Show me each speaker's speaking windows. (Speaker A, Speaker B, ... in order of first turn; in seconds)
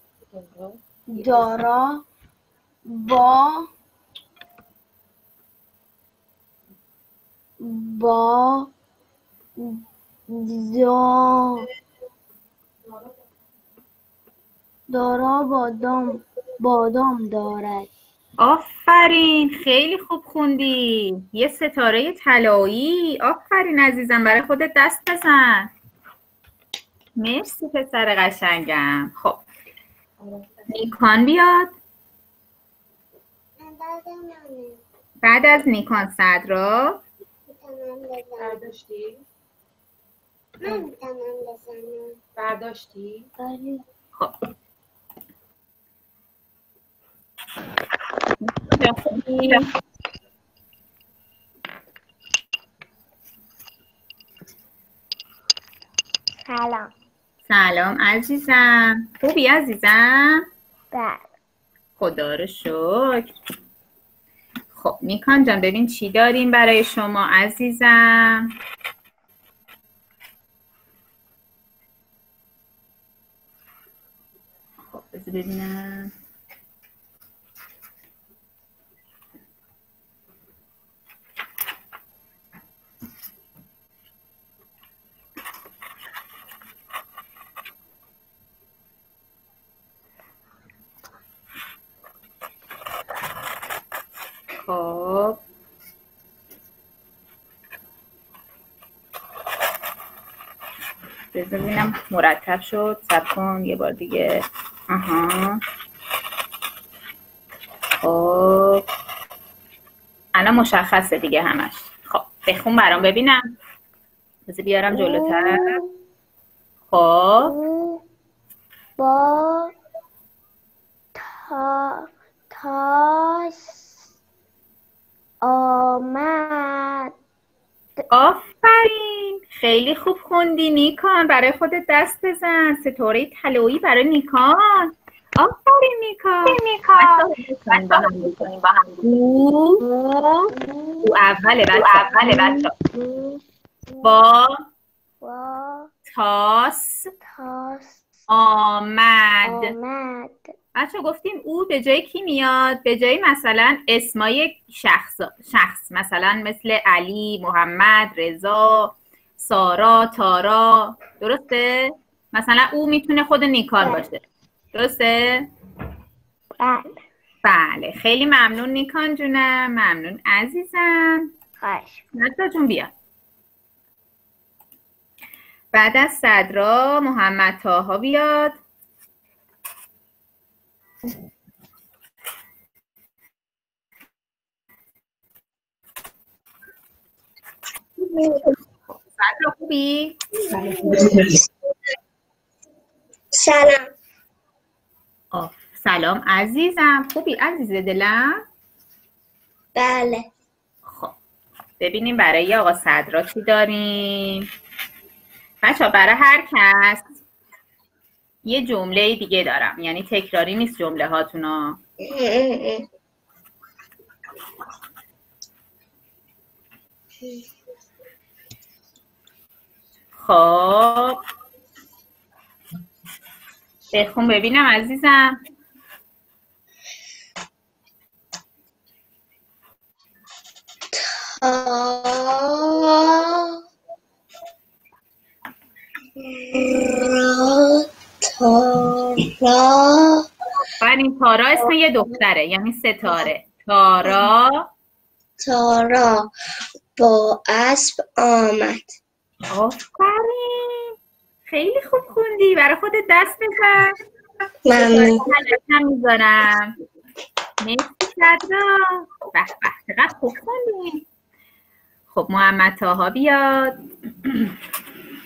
Speaker A: 0.3-1.6, 30.2-30.5, 38.4-39.2, 42.4-43.3, 190.5-191.4
Speaker B: 1.1-2.0, 2.9-3.7, 7.6-8.7, 9.6-11.7, 14.9-17.9, 33.6-34.8, 37.5-38.6, 40.6-42.2, 43.4-43.8, 56.5-56.9, 60.9-61.3, 114.9-115.9, 117.4-118.0, 119.0-119.7, 121.2-123.9, 125.4-127.1, 139.8-141.1, 141.7-144.2, 145.2-145.9, 147.2-148.0, 149.4-150.5, 166.6-167.0, 171.6-172.0, 188.0-188.5, 190.5-191.4, 193.3-193.9, 199.8-200.3, 212.0-212.8, 231.3-233.5, 236.2-240.2, 245.4-246.3, 247.0-248.9, 254.7-255.2
Speaker C: 18.4-25.7, 27.2-29.4, 30.7-31.8, 35.2-37.0, 48.5-49.7, 57.5-60.5, 62.0-63.3, 64.8-68.5, 74.9-76.1, 94.7-95.4, 101.3-105.6, 108.0-108.8, 110.3-113.4, 114.5-115.8, 116.9-117.5, 128.1-139.8, 141.0-142.7, 144.0-144.6, 146.1-147.1, 148.3-149.7, 150.8-165.5, 167.4-171.3, 172.1-172.9, 175.7-178.6, 188.9-190.1, 195.3-198.4, 200.9-201.2, 201.8-204.5, 205.6-207.0, 208.5-211.8, 220.2-221.2, 223.9-225.3, 240.8-244.7, 249.5-250.9, 251.5-254.0, 254.7-256.8, 257.6-261.0, 262.1-264.5